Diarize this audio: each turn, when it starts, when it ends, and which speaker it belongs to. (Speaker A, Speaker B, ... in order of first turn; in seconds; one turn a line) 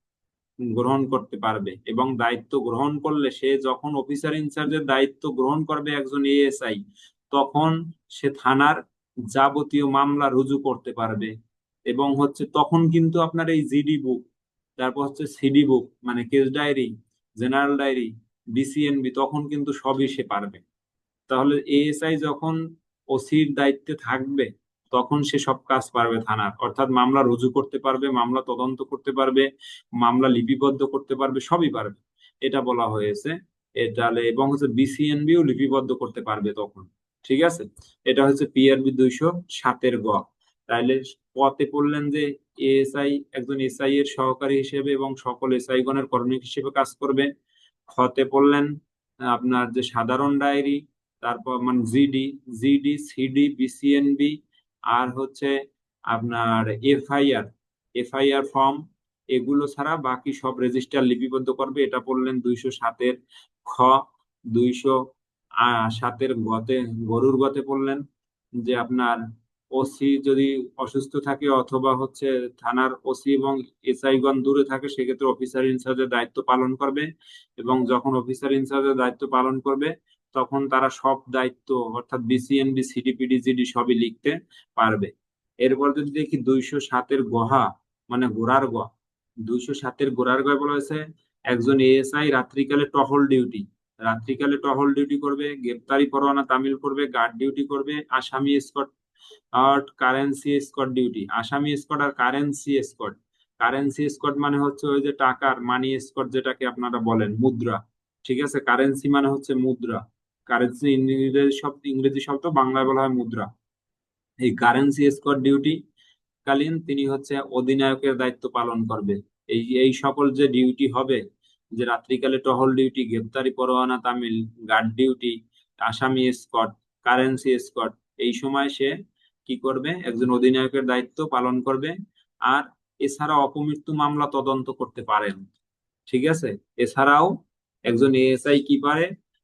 Speaker A: 0.7-6.8
Speaker A: 7.3-8.8
Speaker A: 9.3-11.3
Speaker A: 11.9-14.2
Speaker A: 14.8-20.6
Speaker A: 21.3-22.6
Speaker A: 23.1-29.4
Speaker A: 30.0-47.3
Speaker A: 47.9-48.7
Speaker A: 49.3-54.3
Speaker A: 54.9-55.5
Speaker A: 56.1-58.8
Speaker A: 59.3-63.1
Speaker A: 63.7-64.0
Speaker A: 64.5-65.0
Speaker A: 65.6-68.0
Speaker A: 68.6-69.2
Speaker A: 69.7-77.0
Speaker A: 77.6-85.1
Speaker A: 85.6-88.9
Speaker A: 89.5-91.0
Speaker A: 91.5-98.9
Speaker A: 99.6-113.5
Speaker A: 114.4-115.8
Speaker A: 116.5-121.2
Speaker A: 121.8-128.9
Speaker A: 129.4-131.9
Speaker A: 132.5-135.4
Speaker A: 136.1-137.3
Speaker A: 137.9-139.1